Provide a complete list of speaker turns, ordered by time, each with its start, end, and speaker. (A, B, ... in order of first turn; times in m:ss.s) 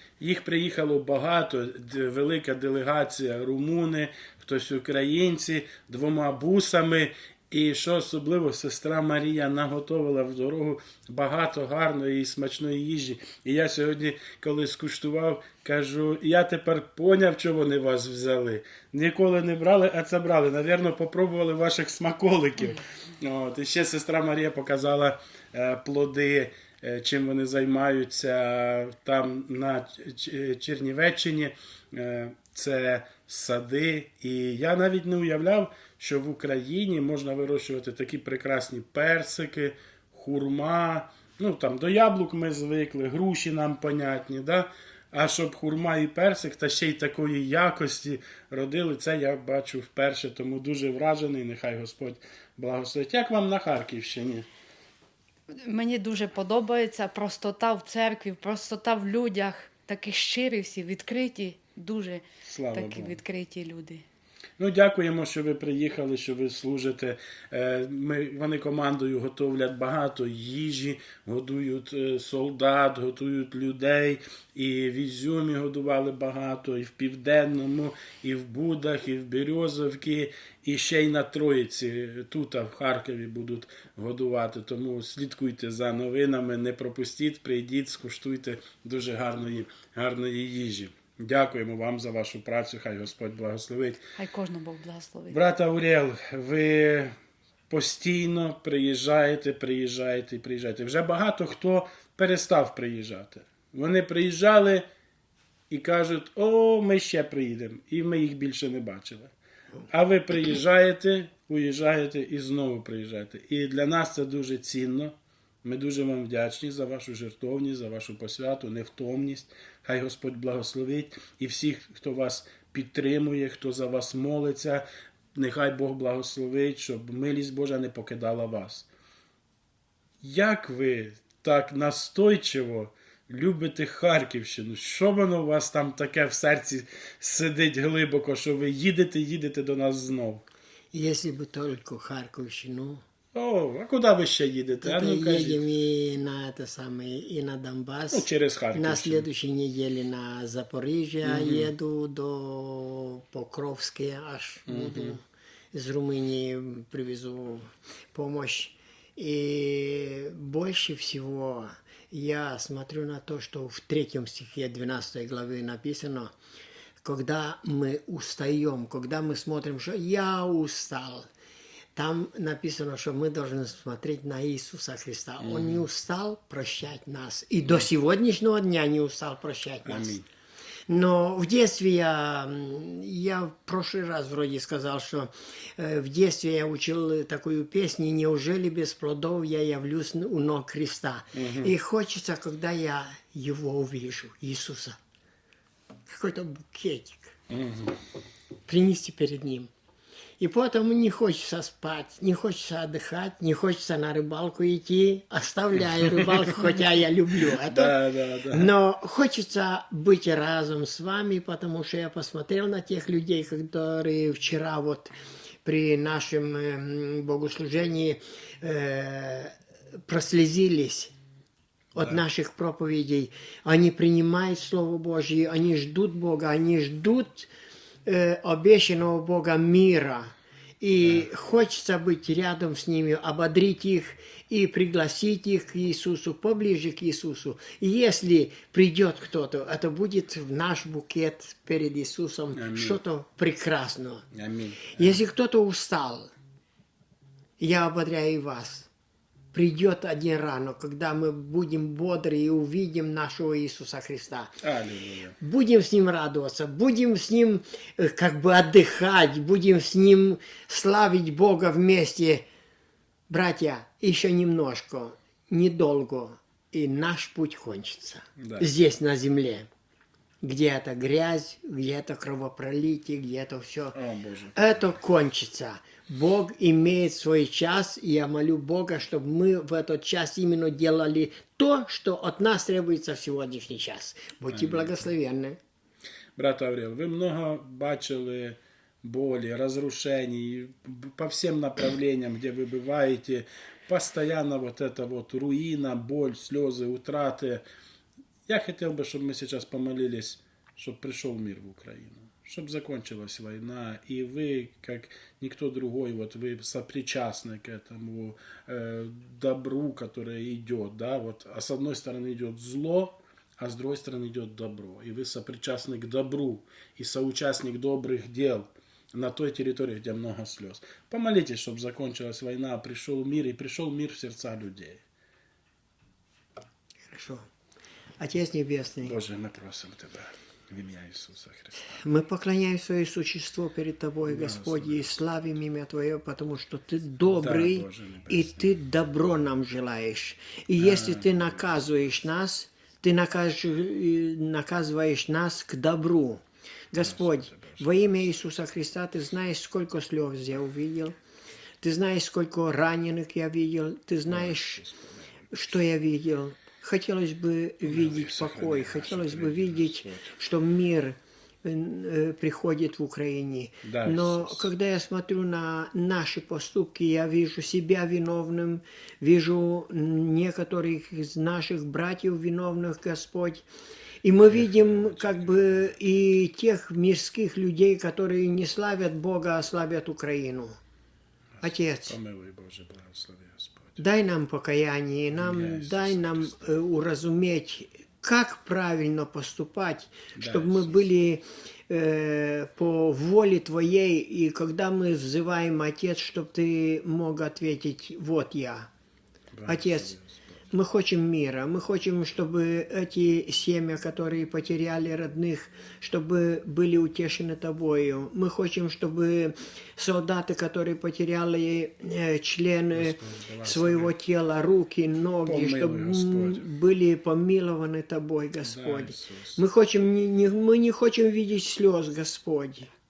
0:00.2-0:54.5 A
0:55.6-1:04.0 B
1:02.4-1:03.2 A
1:04.6-1:34.1 A
1:34.2-1:35.4 B
1:35.3-1:37.1 A
1:37.7-1:44.8 A
1:45.7-1:49.3 A
1:49.9-2:08.9 A
2:10.2-2:20.4 A
2:20.9-2:23.0 C
2:23.3-2:25.6 A
2:24.8-2:35.2 C
2:28.1-2:29.3 A
2:31.2-2:31.7 A
2:34.6-2:35.2 A
2:35.7-2:46.3 C
2:47.0-2:51.3 C
2:51.9-3:00.2 C
2:55.4-2:55.8 A
2:59.8-3:00.3 A
3:00.9-3:15.0 C
3:11.3-3:11.7 A
3:16.1-3:17.3 C
3:17.5-3:18.0 A
3:18.7-3:19.7 C
3:20.4-3:28.0 C
3:26.0-3:26.3 A
3:27.4-3:28.7 A
3:28.5-3:35.1 C
3:35.6-3:39.5 C
3:40.0-3:41.1 C
3:41.9-3:42.2 A
3:42.0-3:47.5 C
3:48.0-4:04.2 C
3:51.0-3:51.3 A
4:02.5-4:03.0 A
4:04.3-4:05.2 A
4:04.9-4:06.3 C
4:07.6-4:08.9 C
4:09.5-4:14.6 C
4:14.6-4:15.4 A
4:15.4-4:22.4 C
4:23.3-4:29.7 C
4:28.4-4:28.7 A
4:30.4-4:34.0 C
4:33.9-4:34.9 A
4:34.5-4:45.6 C
4:44.5-4:45.0 A
4:46.4-4:57.6 A
4:58.5-5:25.0 A
5:27.1-5:27.4 C
5:28.2-5:29.2 C
5:29.0-5:32.0 A
5:31.9-5:51.2 C
5:34.2-5:35.1 A
5:37.2-5:38.8 A
5:40.8-5:41.9 A
5:46.9-5:48.3 A
5:51.8-5:54.8 C
5:54.3-5:55.6 A
5:55.5-6:13.6 C
5:57.8-6:00.4 A
6:03.8-6:04.7 A
6:14.2-6:20.8 C
6:14.5-6:16.0 A
6:21.6-6:24.0 A
6:21.6-6:22.2 C
6:24.0-6:38.9 C
6:25.3-6:26.8 A
6:30.3-6:30.9 A
6:39.5-6:40.6 A
6:39.6-6:40.1 C
6:40.7-7:02.9 C
6:52.9-6:54.1 A
6:55.4-6:56.7 A
6:58.6-6:59.6 A